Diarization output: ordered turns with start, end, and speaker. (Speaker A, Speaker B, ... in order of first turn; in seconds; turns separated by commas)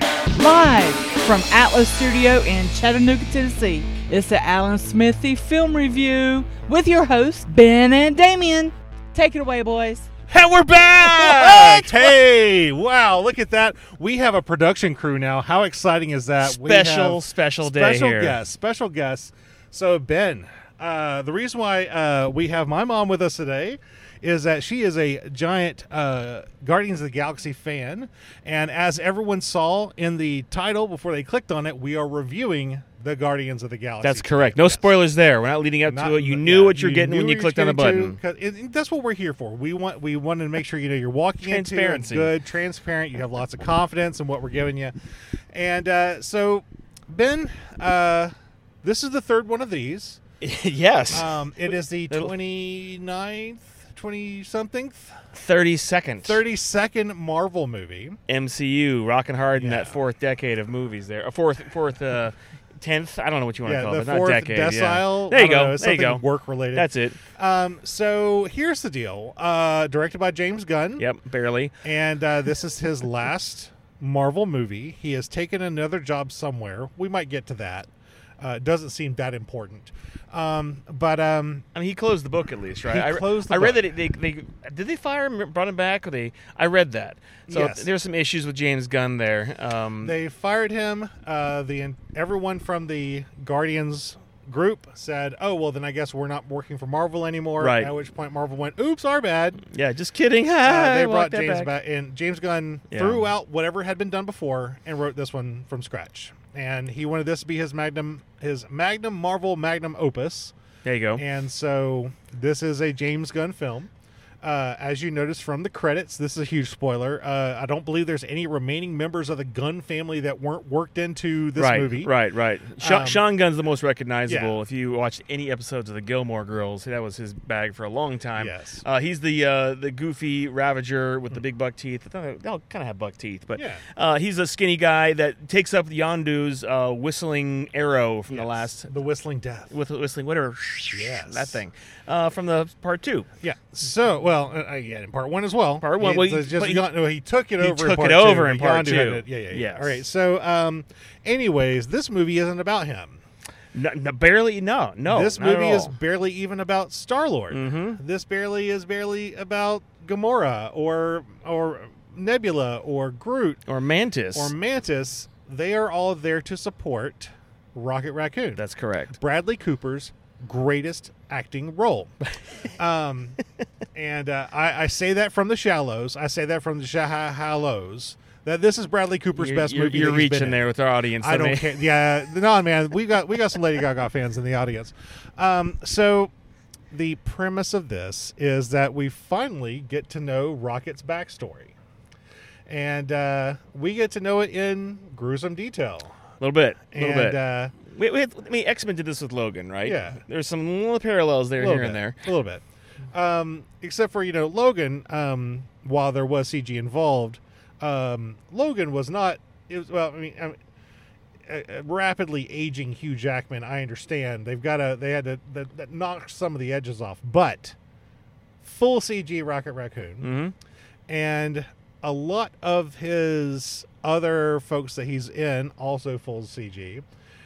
Speaker A: 0.3-10.1, Speaker B: 10.3-34.9, Speaker A: 11.3-11.9, Speaker C: 11.4-11.7, Speaker C: 16.4-18.4, Speaker C: 34.0-38.2, Speaker B: 35.9-50.2, Speaker C: 41.4-42.3, Speaker C: 50.4-51.3, Speaker B: 51.1-55.2, Speaker C: 55.3-56.4, Speaker B: 56.2-58.2, Speaker C: 58.3-66.2, Speaker B: 59.6-60.0, Speaker B: 63.6-71.1, Speaker C: 66.7-67.2, Speaker C: 71.0-71.7, Speaker B: 71.8-77.9, Speaker B: 78.4-81.7, Speaker C: 81.7-90.2, Speaker B: 82.9-83.8, Speaker B: 87.5-87.9, Speaker B: 90.0-99.6, Speaker C: 97.6-97.9, Speaker C: 99.7-101.7, Speaker B: 100.6-110.5, Speaker C: 102.9-103.2, Speaker C: 110.8-111.2, Speaker B: 111.2-113.9, Speaker B: 114.4-122.1, Speaker C: 121.6-138.9, Speaker B: 122.8-123.2, Speaker B: 124.3-124.5, Speaker B: 128.4-128.8, Speaker B: 133.6-133.8, Speaker B: 138.3-139.7, Speaker C: 139.7-143.3, Speaker B: 140.9-141.6, Speaker B: 143.4-153.2, Speaker C: 145.8-146.9, Speaker C: 147.6-150.0, Speaker C: 153.7-155.9, Speaker B: 155.1-163.6, Speaker C: 157.5-158.0, Speaker C: 163.7-164.5, Speaker B: 164.3-168.6, Speaker C: 168.6-169.2, Speaker B: 169.2-172.1, Speaker B: 172.7-173.4, Speaker B: 173.9-180.7, Speaker C: 179.4-181.8, Speaker B: 181.2-186.3, Speaker B: 186.9-191.7, Speaker B: 192.7-196.2, Speaker C: 196.4-202.2, Speaker B: 196.9-197.7, Speaker B: 199.8-200.2, Speaker B: 201.6-210.6, Speaker B: 211.4-217.8, Speaker B: 218.6-220.3, Speaker C: 220.2-220.5, Speaker B: 221.1-227.0